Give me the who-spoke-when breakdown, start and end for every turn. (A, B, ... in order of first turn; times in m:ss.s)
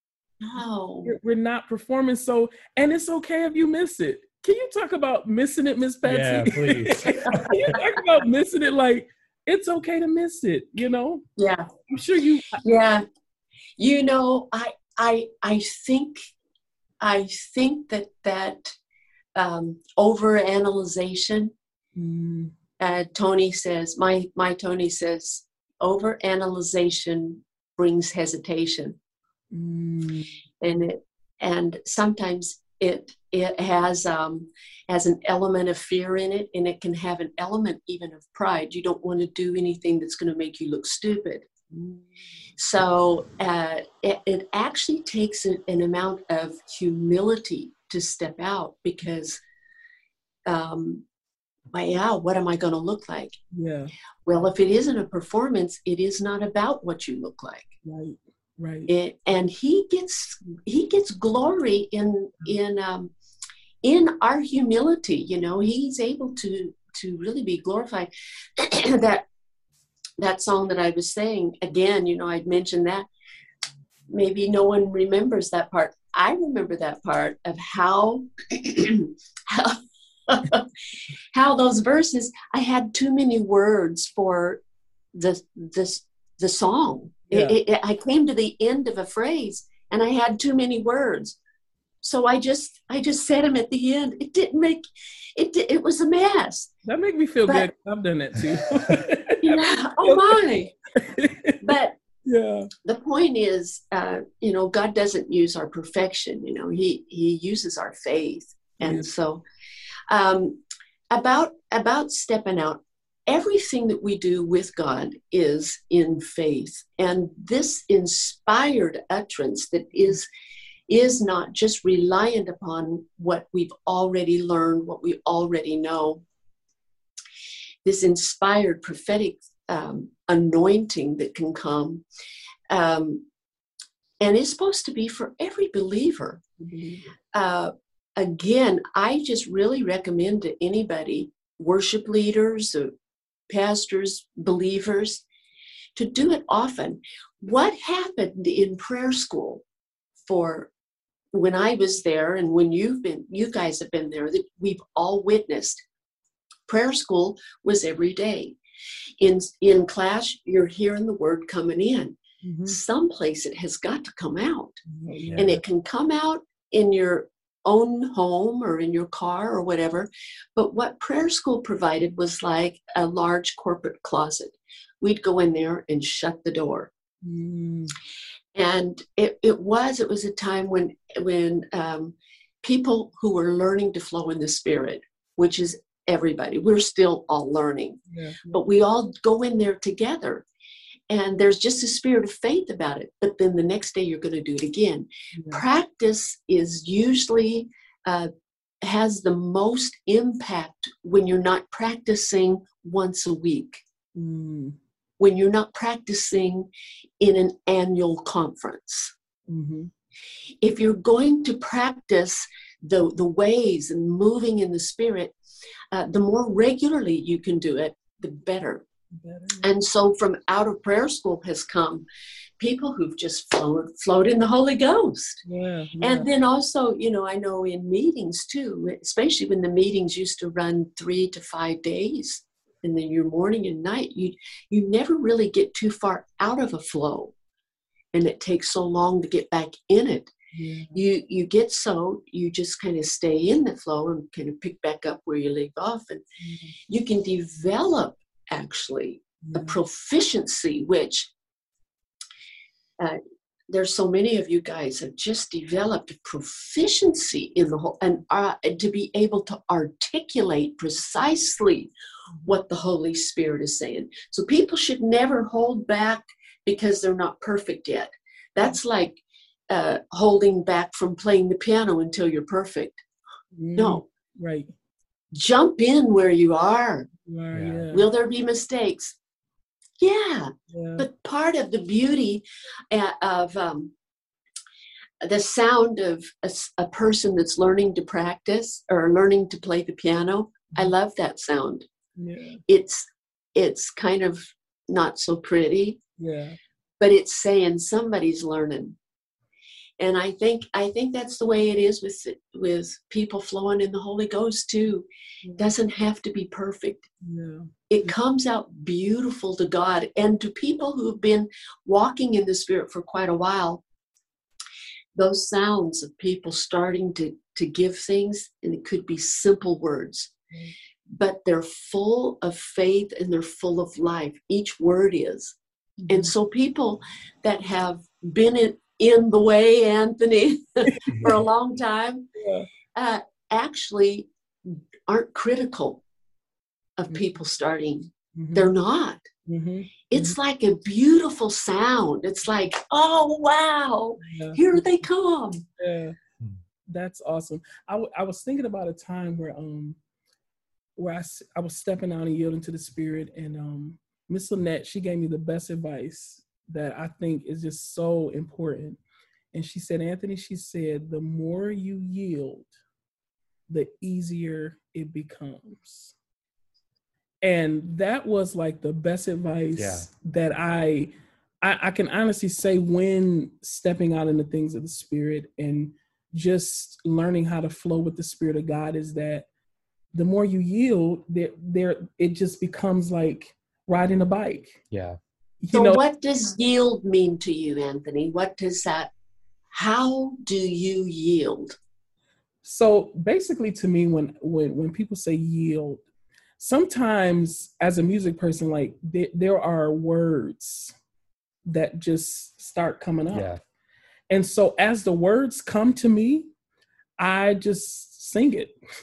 0:00.4-0:01.2 A
0:01.0-0:11.2 B
0:06.0-0:07.8 C
0:11.4-0:11.7 A
0:11.9-0:12.6 B
0:12.6-0:13.0 A
0:13.8-0:16.3 A
0:17.0-0:18.8 A
0:19.4-0:21.5 A
0:22.0-0:22.6 B
0:22.8-0:29.0 A
0:29.5-0:30.4 B
0:30.6-0:41.5 A
0:41.7-0:42.0 B
0:42.6-0:49.4 A
0:50.5-0:51.0 A
0:51.7-0:53.4 A
0:53.5-0:53.9 B
0:54.3-0:57.7 A
0:57.8-0:58.9 B
0:58.9-1:03.1 A
1:03.8-1:09.3 A
1:10.2-1:13.1 A
1:14.1-1:20.7 A
1:21.3-1:24.6 A
1:25.1-1:31.4 A
1:27.3-1:27.6 B
1:32.0-1:34.8 A
1:35.4-1:36.7 A
1:36.9-1:40.5 B
1:39.4-1:40.7 A
1:41.0-1:41.6 B
1:41.6-1:42.0 A
1:42.3-1:42.7 B
1:42.8-1:49.4 A
1:48.8-1:49.1 B
1:50.1-2:00.3 A
2:00.9-2:06.2 A
2:07.8-2:12.0 A
2:12.7-2:13.2 A
2:14.2-2:16.4 A
2:16.6-2:17.1 B
2:17.3-2:22.9 A
2:23.5-2:25.2 A
2:26.0-2:29.6 A
2:30.3-2:30.7 A
2:31.3-2:35.8 A
2:36.7-2:38.6 A
2:39.2-2:44.8 A
2:42.4-2:42.8 B
2:44.9-2:45.6 B
2:45.3-2:45.6 C
2:45.4-2:56.9 A
2:57.2-2:57.9 B
2:58.5-3:10.5 A
3:08.1-3:08.6 B
3:11.1-3:18.3 A
3:15.4-3:15.6 B
3:18.8-3:23.8 A
3:24.2-3:24.8 B
3:25.2-3:26.7 A
3:27.2-3:29.1 A
3:29.5-3:29.9 B
3:30.6-3:35.4 A
3:35.9-3:38.8 A
3:39.1-3:39.7 B
3:39.6-3:42.1 A
3:42.6-3:45.4 A
3:45.5-3:46.3 B
3:46.0-3:57.3 A
3:58.1-4:00.3 A
4:00.5-4:01.0 B
4:00.9-4:06.2 A
4:06.4-4:06.8 B
4:06.9-4:11.3 A
4:09.4-4:09.8 B
4:13.7-4:21.9 A
4:22.4-4:33.0 A
4:33.6-4:34.7 B
4:33.8-4:34.0 A
4:35.3-4:37.1 A
4:37.3-4:38.1 B
4:37.5-4:37.8 C
4:37.9-4:39.2 A
4:40.0-4:43.9 A
4:40.7-4:41.1 B
4:45.2-4:51.9 A
4:52.2-4:52.6 B
4:52.7-4:56.0 A
4:56.2-4:56.6 B
4:57.0-4:59.0 A
5:00.0-5:07.1 A
5:07.2-5:07.7 B
5:07.9-5:13.8 A
5:15.2-5:20.3 A
5:21.1-5:25.6 A
5:26.0-5:26.3 B
5:26.1-5:32.3 A
5:31.1-5:31.4 C
5:32.4-5:32.7 B
5:33.0-5:36.0 A
5:37.0-5:39.2 A
5:38.4-5:38.7 B
5:39.5-5:40.4 B
5:40.1-5:45.6 A
5:44.2-5:44.6 B
5:45.8-5:46.2 B
5:46.9-5:50.0 B
5:51.0-5:59.0 B
5:59.5-6:02.7 B
6:03.7-6:06.2 B
6:07.4-6:19.5 B
6:09.8-6:10.1 C
6:20.1-6:24.8 B
6:24.9-6:25.2 C
6:25.6-6:26.0 B
6:25.7-6:29.1 A
6:29.7-6:31.8 A
6:32.6-6:36.0 B
6:36.6-6:40.9 B
6:41.7-6:43.5 B
6:43.3-6:43.6 C
6:44.3-6:46.5 B
6:47.2-6:48.8 B